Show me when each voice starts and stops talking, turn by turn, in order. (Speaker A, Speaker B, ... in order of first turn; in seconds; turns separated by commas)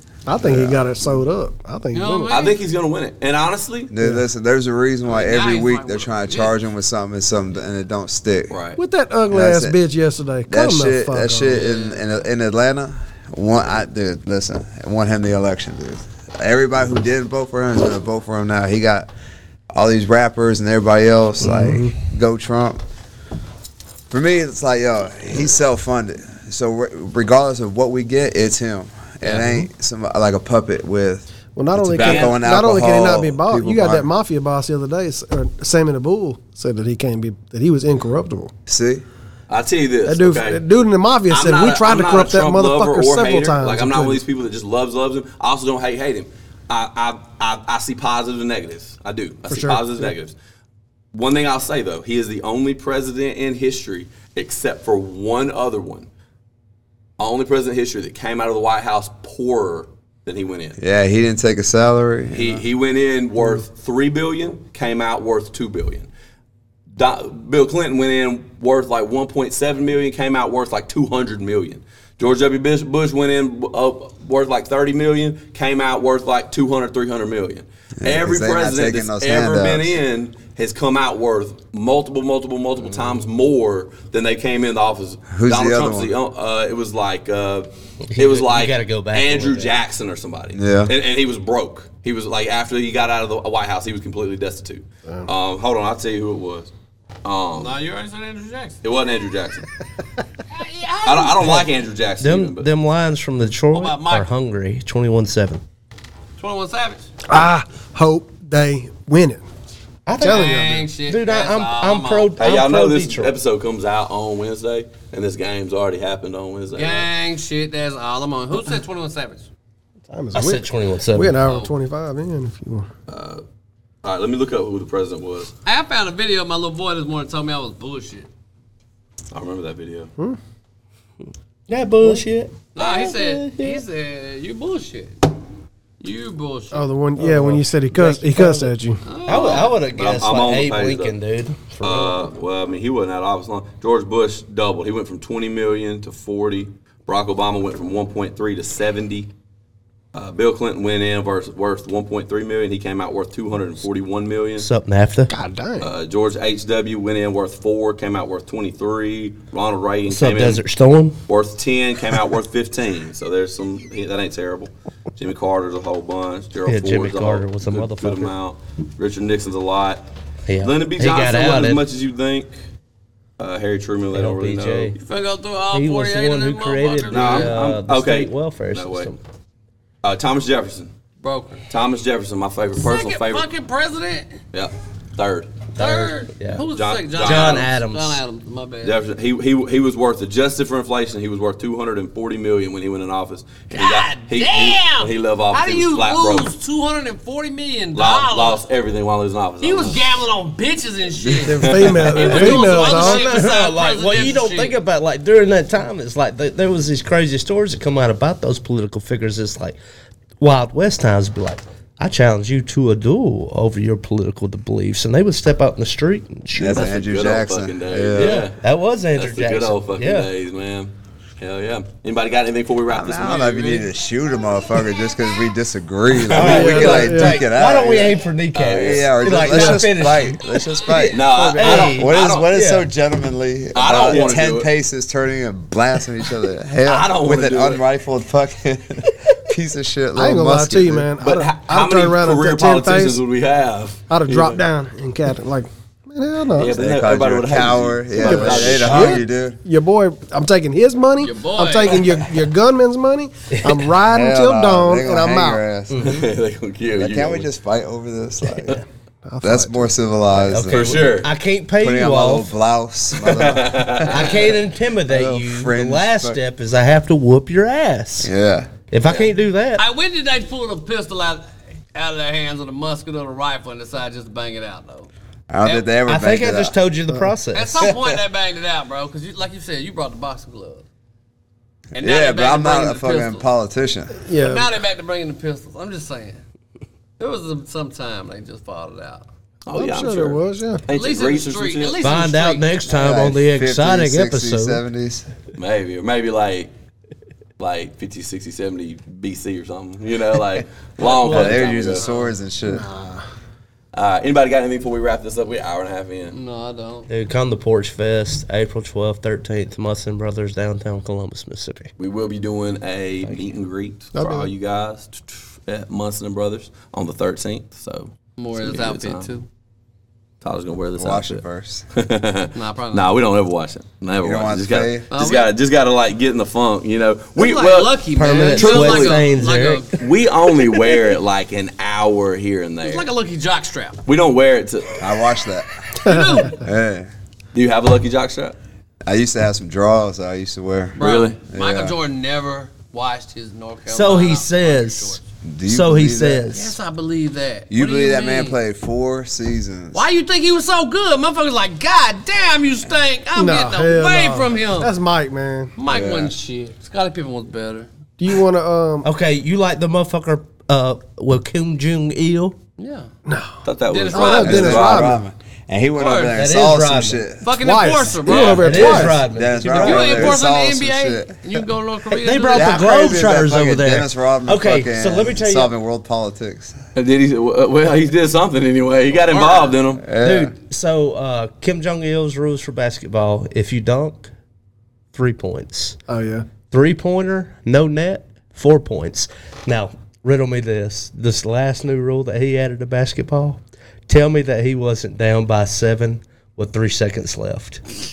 Speaker A: 0.2-2.4, Speaker B: 0.3-1.2, Speaker C: 1.9-2.6, Speaker D: 2.3-3.9, Speaker B: 3.9-8.6, Speaker C: 5.0-6.6, Speaker D: 8.5-8.8, Speaker A: 8.8-11.6, Speaker B: 9.3-9.8, Speaker B: 10.5-19.1, Speaker C: 11.5-12.0, Speaker B: 19.7-22.8, Speaker A: 21.4-21.9, Speaker B: 24.1-34.1, Speaker A: 29.3-29.7, Speaker A: 31.6-38.5, Speaker D: 32.0-32.4, Speaker B: 38.7-39.0, Speaker D: 39.5-40.6, Speaker A: 40.0-44.2, Speaker D: 41.3-50.3, Speaker A: 49.5-50.1, Speaker D: 51.1-56.1, Speaker D: 57.2-60.8, Speaker B: 60.8-62.6, Speaker D: 62.3-66.1, Speaker D: 66.9-96.7, Speaker B: 78.0-80.0, Speaker B: 85.3-86.1, Speaker E: 88.1-89.7, Speaker B: 90.5-90.9, Speaker D: 97.2-97.8, Speaker C: 97.5-98.8, Speaker D: 98.8-99.7, Speaker C: 100.5-101.5, Speaker D: 101.0-102.7, Speaker E: 101.4-101.7, Speaker E: 102.2-105.6, Speaker C: 103.7-104.3, Speaker C: 106.4-107.0, Speaker A: 107.3-109.4, Speaker E: 110.0-113.3, Speaker A: 110.2-110.9, Speaker C: 110.2-112.3, Speaker D: 112.4-117.1, Speaker C: 116.7-119.5, Speaker A: 120.1-122.9, Speaker E: 120.3-121.3, Speaker C: 121.4-121.7, Speaker D: 123.1-123.4, Speaker D: 124.0-125.5, Speaker C: 125.6-128.3, Speaker D: 129.3-130.1, Speaker E: 131.7-133.8, Speaker C: 132.7-135.2, Speaker C: 136.0-136.9, Speaker A: 136.7-139.0, Speaker E: 137.2-138.7, Speaker C: 139.0-139.8, Speaker E: 139.2-142.2, Speaker D: 139.3-141.2, Speaker D: 141.8-149.3, Speaker D: 150.1-154.7, Speaker E: 154.6-155.3, Speaker A: 155.3-155.9, Speaker D: 155.8-160.6, Speaker E: 160.1-161.2, Speaker D: 161.3-170.0, Speaker E: 166.7-168.3, Speaker E: 170.5-171.8, Speaker D: 170.6-172.5, Speaker D: 173.4-174.9, Speaker E: 174.1-175.0, Speaker C: 174.9-177.6, Speaker E: 175.7-179.2, Speaker D: 177.1-179.1, Speaker D: 180.0-180.9, Speaker C: 181.2-181.6, Speaker D: 181.7-183.5, Speaker C: 182.8-184.4, Speaker D: 184.5-185.6, Speaker E: 185.8-186.6, Speaker C: 185.8-189.0, Speaker D: 186.5-187.7, Speaker E: 187.2-188.2, Speaker D: 188.8-196.5, Speaker C: 193.7-198.6, Speaker D: 197.9-200.2, Speaker C: 199.6-204.8, Speaker A: 201.4-203.5, Speaker E: 201.9-209.8, Speaker D: 202.0-202.7, Speaker E: 210.4-216.9, Speaker B: 216.5-218.4, Speaker D: 216.7-218.6, Speaker E: 218.2-220.3, Speaker D: 219.1-223.9, Speaker B: 222.9-228.2, Speaker D: 226.1-226.9, Speaker E: 226.3-232.9, Speaker A: 226.4-227.4, Speaker D: 228.5-229.8, Speaker B: 228.7-241.1, Speaker D: 231.1-232.5, Speaker A: 231.2-231.9, Speaker D: 233.7-234.7, Speaker D: 236.8-237.8, Speaker A: 240.2-243.2, Speaker D: 241.2-244.6, Speaker A: 244.1-246.7, Speaker D: 246.6-249.2, Speaker B: 246.7-249.6, Speaker A: 248.2-255.6, Speaker C: 251.2-252.0, Speaker E: 253.6-253.8, Speaker B: 254.1-256.1, Speaker E: 255.9-256.2, Speaker D: 256.0-257.5, Speaker B: 256.9-258.8, Speaker A: 259.2-259.9, Speaker B: 259.4-261.0, Speaker E: 260.3-262.5, Speaker D: 260.7-261.3, Speaker B: 261.8-264.4, Speaker D: 263.1-264.6, Speaker E: 264.1-268.3, Speaker B: 265.1-266.4, Speaker B: 268.2-268.7, Speaker E: 268.9-269.9, Speaker D: 269.0-269.3, Speaker C: 269.8-275.1, Speaker B: 275.5-276.8, Speaker C: 275.6-275.9, Speaker E: 276.1-277.9, Speaker C: 277.5-280.8, Speaker B: 281.9-284.2, Speaker C: 282.0-283.5, Speaker A: 284.2-284.7, Speaker C: 284.3-286.4, Speaker C: 287.2-289.3, Speaker D: 289.6-292.0, Speaker A: 289.7-290.8, Speaker C: 290.9-292.8, Speaker E: 292.0-294.8, Speaker B: 292.9-295.3, Speaker D: 295.6-296.7, Speaker D: 297.6-302.1, Speaker B: 301.0-302.9, Speaker E: 301.2-301.7, Speaker C: 301.8-302.3, Speaker A: 302.7-303.2, Speaker D: 303.9-306.4, Speaker C: 306.3-307.1, Speaker E: 307.1-311.9, Speaker D: 312.0-319.3, Speaker A: 314.1-314.5, Speaker C: 318.4-319.5, Speaker D: 320.4-329.3, Speaker B: 321.0-321.9, Speaker C: 322.5-323.1, Speaker B: 324.2-325.1, Speaker C: 325.1-325.5, Speaker C: 327.4-330.0, Speaker E: 328.1-329.8, Speaker D: 329.9-333.1, Speaker C: 330.7-331.0, Speaker C: 332.8-334.0, Speaker D: 334.1-335.0, Speaker B: 335.0-335.9, Speaker C: 336.0-336.6, Speaker A: 336.1-336.5, Speaker B: 336.6-337.1, Speaker D: 337.5-338.6, Speaker B: 339.1-341.9, Speaker C: 340.9-345.2, Speaker D: 341.0-341.4, Speaker E: 343.9-346.8, Speaker B: 345.4-346.6, Speaker C: 346.5-348.6, Speaker B: 347.7-350.0, Speaker C: 349.9-354.9, Speaker A: 353.3-355.7, Speaker C: 355.8-357.9, Speaker B: 355.9-356.3, Speaker A: 358.2-359.1, Speaker E: 359.0-362.6, Speaker C: 362.8-363.1, Speaker A: 363.3-365.2, Speaker D: 363.6-365.1, Speaker C: 363.9-364.8, Speaker B: 364.1-367.5, Speaker C: 366.0-366.4, Speaker E: 366.3-367.3, Speaker C: 367.4-369.0, Speaker A: 367.5-369.3, Speaker D: 368.2-368.8, Speaker E: 368.5-370.4, Speaker B: 368.7-371.4, Speaker C: 369.8-372.9, Speaker E: 372.1-375.7, Speaker B: 372.5-376.8, Speaker D: 376.9-380.0, Speaker C: 379.2-379.8, Speaker B: 380.0-380.5, Speaker E: 380.2-384.3, Speaker E: 385.1-385.9, Speaker A: 386.1-386.5, Speaker E: 386.7-397.8